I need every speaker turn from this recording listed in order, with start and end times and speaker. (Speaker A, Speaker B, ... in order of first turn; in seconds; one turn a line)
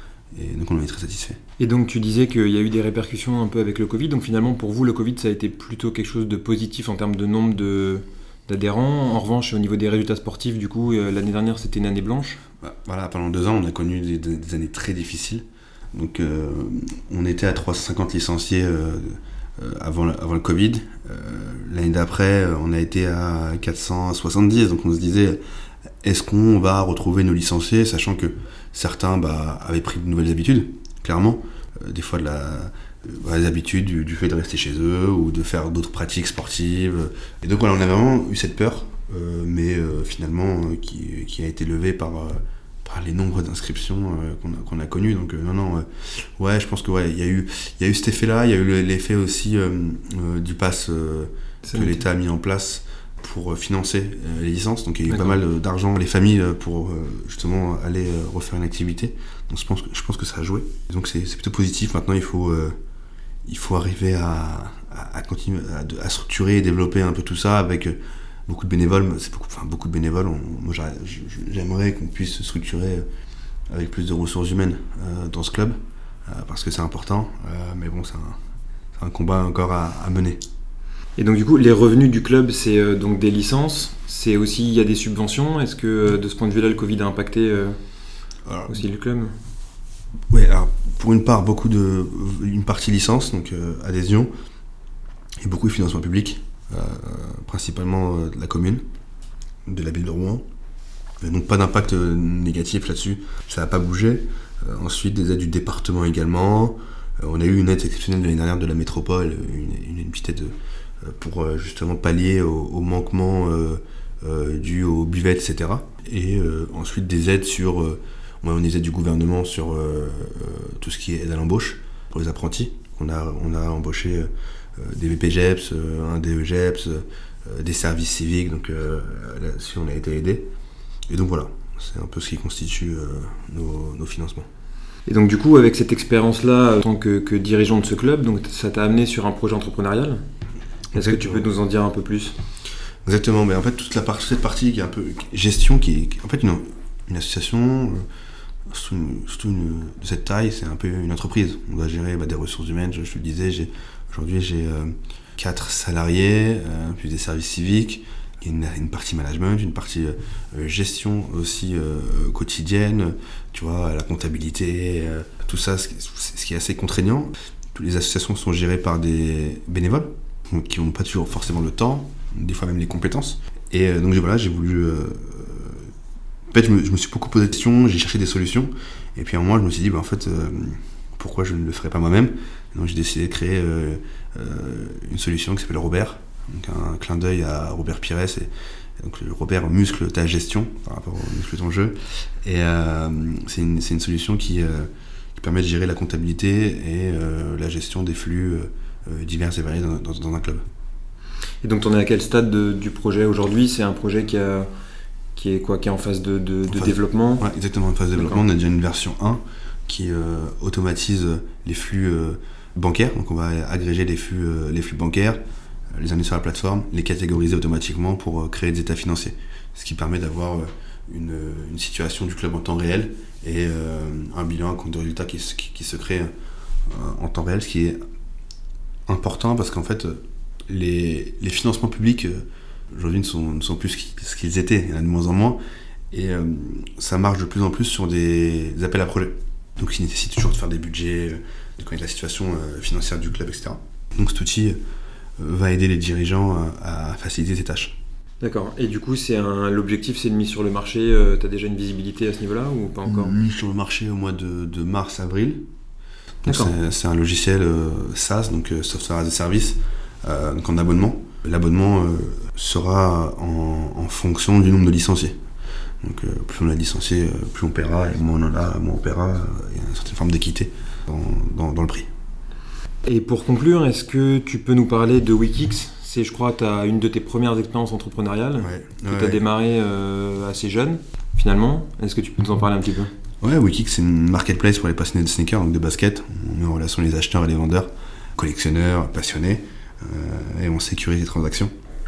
Speaker A: 0.3-1.4
Speaker B: 1.6-12.4
Speaker A: 12.6-25.4
Speaker A: 26.0-62.8
Speaker B: 51.6-52.0
Speaker B: 55.1-55.4
Speaker A: 63.5-73.1
Speaker A: 73.7-75.8
Speaker A: 76.3-78.4
Speaker A: 79.0-80.4
Speaker B: 81.2-87.8
Speaker A: 88.5-88.8
Speaker B: 88.7-89.3
Speaker A: 90.3-94.3
Speaker A: 95.4-98.8
Speaker A: 99.7-100.5
Speaker A: 101.2-130.5
Speaker A: 131.1-134.5
Speaker B: 135.1-140.2
Speaker A: 140.9-141.5
Speaker B: 140.9-142.3
Speaker A: 143.1-148.1
Speaker A: 148.7-175.9
Speaker A: 176.5-200.6
Speaker B: 201.6-204.7
Speaker B: 205.3-207.4
Speaker A: 206.7-215.4
Speaker A: 215.9-226.3
Speaker A: 226.9-228.0
Speaker A: 229.1-235.6
Speaker A: 236.1-244.8
Speaker A: 245.4-248.0
Speaker B: 248.4-253.3
Speaker A: 253.1-255.6
Speaker A: 256.4-265.4
Speaker B: 256.5-256.8
Speaker A: 266.0-272.1
Speaker B: 273.1-283.1
Speaker A: 278.6-279.4
Speaker A: 283.4-291.7